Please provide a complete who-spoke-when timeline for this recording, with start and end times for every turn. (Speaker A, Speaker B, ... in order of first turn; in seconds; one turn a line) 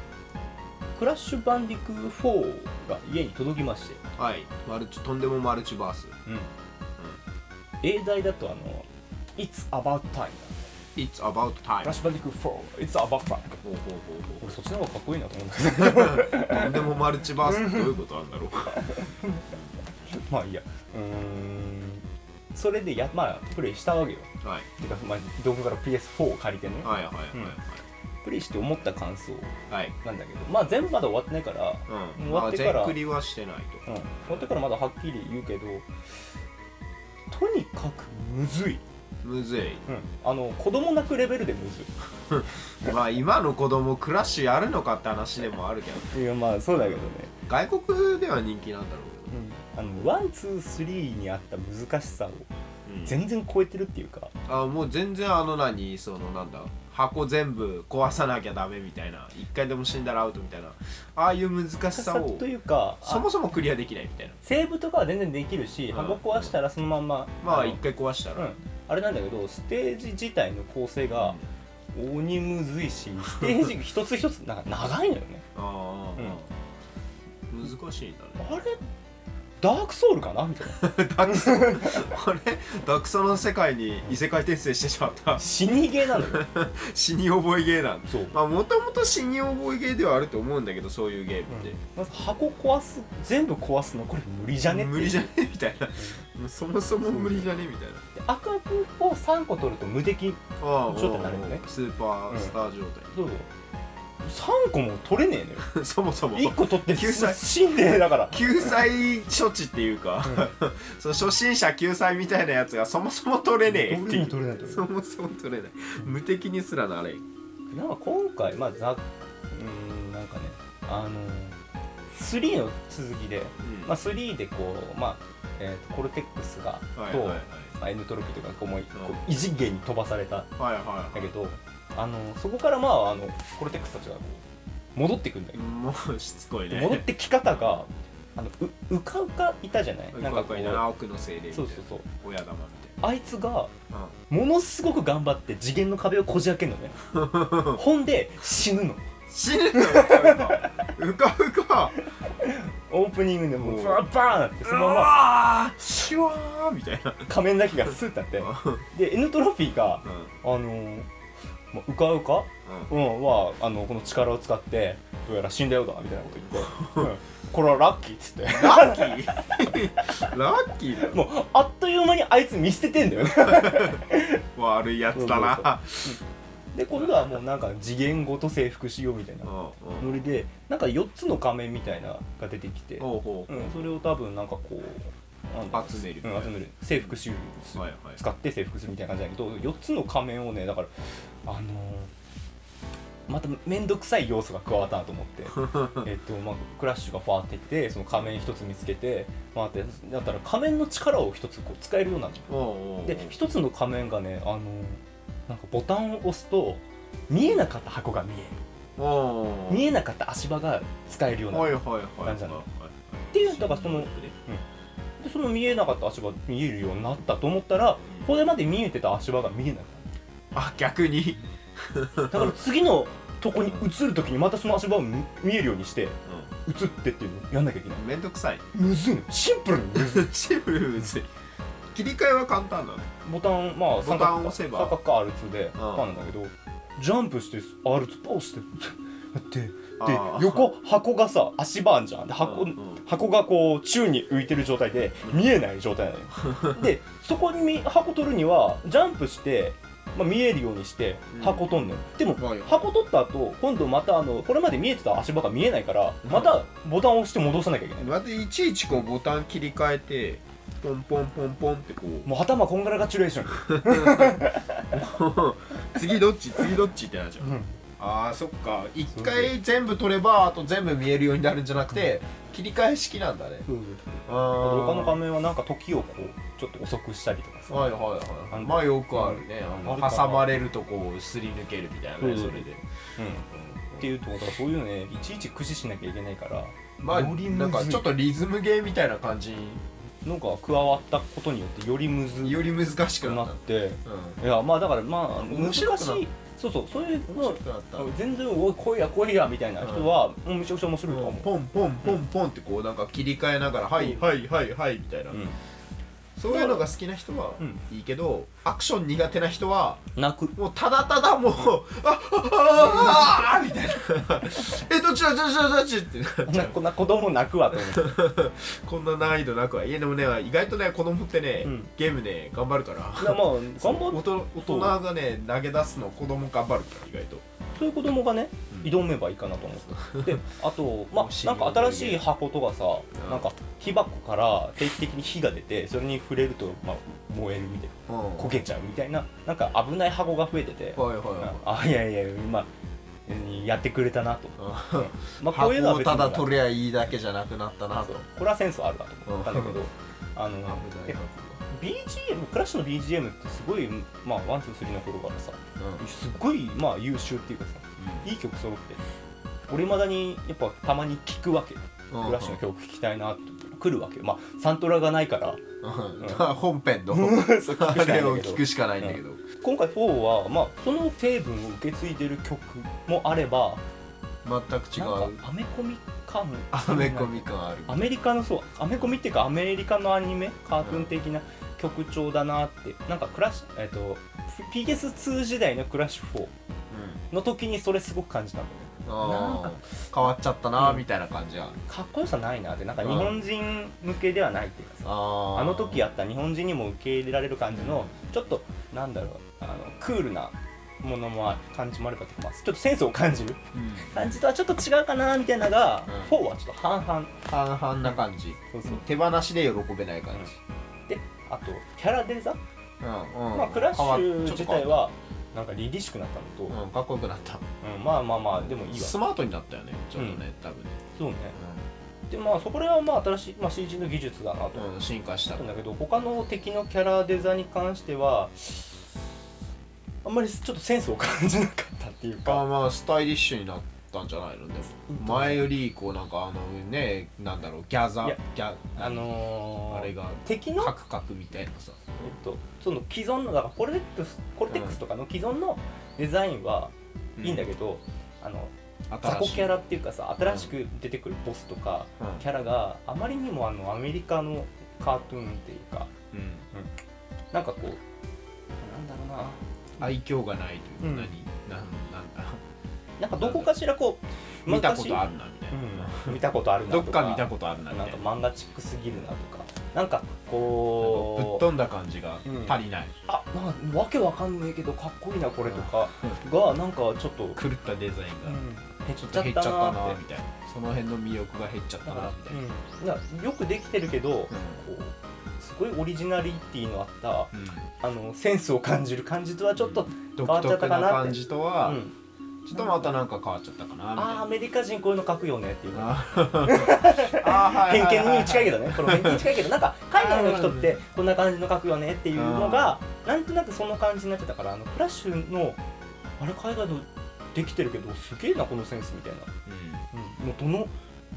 Speaker A: 1.0-4.0
Speaker B: 4.2-6.2
Speaker A: 7.8-10.7
Speaker B: 11.0-12.0
Speaker A: 11.8-13.6
Speaker B: 13.6-14.6
Speaker A: 14.4-16.8
Speaker B: 15.8-19.6
Speaker A: 17.4-17.9
Speaker A: 18.7-19.5
Speaker A: 20.1-27.6
Speaker B: 24.4-24.7
Speaker B: 26.8-27.8
Speaker A: 28.2-33.0
Speaker B: 29.7-30.0
Speaker B: 31.9-34.5
Speaker A: 33.9-35.9
Speaker A: 37.3-38.8
Speaker B: 39.2-39.9
Speaker A: 39.9-41.9
Speaker B: 42.3-46.2
Speaker A: 46.1-47.3
Speaker B: 46.7-50.1
Speaker A: 49.3-52.5
Speaker B: 52.9-53.2
Speaker A: 53.0-54.3
Speaker B: 54.5-62.5
Speaker A: 61.9-63.3
Speaker B: 63.0-64.4
Speaker A: 64.4-67.8
Speaker B: 65.9-66.6
Speaker B: 67.4-68.5
Speaker A: 68.3-71.4
Speaker B: 71.1-71.5
Speaker A: 72.0-75.5
Speaker B: 73.3-73.6
Speaker B: 75.5-76.5
Speaker B: 77.5-78.7
Speaker A: 78.4-78.8
Speaker A: 79.6-82.1
Speaker B: 80.7-85.4
Speaker A: 85.4-86.5
Speaker B: 86.1-91.8
Speaker A: 88.1-88.4
Speaker A: 91.5-95.3
Speaker B: 94.6-98.0
Speaker A: 96.0-96.2
Speaker A: 97.0-97.5
Speaker A: 98.2-101.6
Speaker B: 100.6-103.1
Speaker A: 102.3-102.6
Speaker A: 103.1-103.5
Speaker A: 104.2-105.7
Speaker B: 105.6-117.2
Speaker A: 106.3-108.8
Speaker A: 113.7-114.9
Speaker A: 117.7-121.6
Speaker A: 122.1-130.5
Speaker B: 123.6-123.9
Speaker B: 127.0-127.7
Speaker B: 128.9-129.2
Speaker B: 130.6-131.5
Speaker A: 131.1-134.4
Speaker A: 135.0-135.6
Speaker B: 135.5-137.9
Speaker A: 136.7-140.9
Speaker B: 140.1-142.9
Speaker A: 141.5-142.1
Speaker A: 143.0-143.7
Speaker A: 144.3-149.1
Speaker B: 147.1-147.8
Speaker B: 149.3-152.0
Speaker A: 149.7-150.9
Speaker A: 152.4-155.2
Speaker B: 153.6-154.1
Speaker B: 154.6-157.3
Speaker A: 157.3-161.1
Speaker B: 158.4-158.8
Speaker B: 160.0-160.3
Speaker A: 161.7-169.2
Speaker B: 162.7-162.9
Speaker B: 166.5-167.1
Speaker B: 168.5-171.2
Speaker A: 171.0-174.4
Speaker B: 173.3-174.0
Speaker B: 174.6-176.2
Speaker A: 175.1-176.2
Speaker A: 176.7-190.9
Speaker B: 176.9-177.3
Speaker B: 179.4-180.1
Speaker B: 183.0-183.8
Speaker B: 185.7-187.2
Speaker B: 187.8-188.2
Speaker A: 191.5-192.1
Speaker A: 193.3-202.5
Speaker B: 195.6-196.0
Speaker B: 202.5-203.4
Speaker A: 203.0-208.6
Speaker B: 209.0-209.9
Speaker A: 209.7-212.6
Speaker B: 211.5-214.3
Speaker A: 213.3-214.6
Speaker A: 215.2-220.1
Speaker B: 220.5-222.5
Speaker A: 222.3-228.0
Speaker B: 227.9-228.7
Speaker A: 228.7-230.3
Speaker B: 229.9-231.3
Speaker B: 231.9-233.1
Speaker A: 233.2-258.1
Speaker B: 234.0-235.0
Speaker B: 235.8-236.3
Speaker B: 240.0-240.7
Speaker B: 242.4-243.0
Speaker B: 251.3-252.9
Speaker B: 256.2-256.6
Speaker B: 258.0-262.3
Speaker A: 262.2-265.0
Speaker B: 263.6-273.7
Speaker A: 267.4-267.8
Speaker A: 269.1-269.5
Speaker A: 273.7-278.0
Speaker B: 274.3-275.2
Speaker B: 277.7-282.8
Speaker A: 278.5-280.5
Speaker A: 282.2-283.5
Speaker B: 283.5-284.1
Speaker A: 284.0-288.1
Speaker B: 287.0-289.8
Speaker A: 290.2-301.5
Speaker B: 292.4-294.4
Speaker B: 295.4-296.3
Speaker B: 297.3-298.1
Speaker B: 299.8-300.1
Speaker B: 301.1-305.4
Speaker A: 304.0-304.3
Speaker A: 305.3-305.6
Speaker B: 306.4-310.0
Speaker A: 306.5-306.9
Speaker A: 310.2-310.6
Speaker B: 310.6-316.8
Speaker A: 312.8-313.5
Speaker A: 316.5-318.2
Speaker B: 317.7-327.4
Speaker A: 321.6-321.9
Speaker A: 323.2-325.0
Speaker A: 327.8-342.7
Speaker B: 328.7-329.0
Speaker B: 330.1-330.4
Speaker B: 331.1-332.3
Speaker B: 333.2-333.5
Speaker B: 338.1-338.6
Speaker B: 340.9-341.7
Speaker A: 343.3-346.6
Speaker B: 344.6-348.2
Speaker A: 348.0-351.2
Speaker B: 349.3-349.8
Speaker B: 350.6-351.6
Speaker A: 351.7-359.0
Speaker B: 358.0-358.3
Speaker A: 359.7-365.6
Speaker B: 362.1-362.6
Speaker B: 365.8-369.4
Speaker A: 366.2-366.4
Speaker A: 367.1-373.8
Speaker B: 374.4-375.4
Speaker A: 375.0-386.5
Speaker B: 376.7-378.1
Speaker B: 380.8-381.1
Speaker B: 386.9-387.2
Speaker A: 387.3-391.1
Speaker B: 389.1-391.8
Speaker A: 391.9-407.5
Speaker B: 393.0-393.5
Speaker B: 395.0-396.0
Speaker B: 397.7-398.1
Speaker B: 403.7-404.4
Speaker B: 406.1-406.4
Speaker B: 407.5-410.6
Speaker A: 408.7-409.0
Speaker A: 411.1-412.6
Speaker B: 413.0-415.1
Speaker A: 413.5-416.8
Speaker B: 416.7-417.6
Speaker A: 417.8-419.2
Speaker B: 418.6-421.0
Speaker A: 420.2-420.4
Speaker A: 421.2-421.6
Speaker B: 421.6-421.9
Speaker A: 422.3-424.9
Speaker B: 424.7-425.8
Speaker A: 425.5-429.1
Speaker A: 430.2-432.6
Speaker B: 432.4-439.3
Speaker A: 435.1-435.6
Speaker A: 439.0-440.9
Speaker B: 439.8-442.3
Speaker A: 442.2-456.1
Speaker B: 444.7-445.0
Speaker B: 447.4-447.7
Speaker B: 449.1-449.8
Speaker B: 450.4-450.7
Speaker B: 452.2-452.5
Speaker B: 456.3-456.6
Speaker A: 457.5-458.0
Speaker A: 458.8-459.6
Speaker B: 460.0-462.6
Speaker A: 461.0-461.3
Speaker A: 463.2-471.7
Speaker B: 463.4-463.7
Speaker B: 464.7-468.2
Speaker B: 470.9-473.1
Speaker A: 472.4-477.6
Speaker B: 475.6-476.4
Speaker B: 477.6-478.6
Speaker A: 478.4-480.2
Speaker B: 479.2-482.6
Speaker A: 482.1-492.1
Speaker B: 484.5-484.8
Speaker B: 487.5-487.9
Speaker B: 489.8-492.0
Speaker B: 492.6-494.5
Speaker A: 492.7-493.1
Speaker A: 494.2-505.8
Speaker B: 495.9-499.5
Speaker B: 500.1-501.0
Speaker B: 502.3-503.0
Speaker A: 506.4-509.5
Speaker B: 509.7-510.0
Speaker A: 510.1-510.9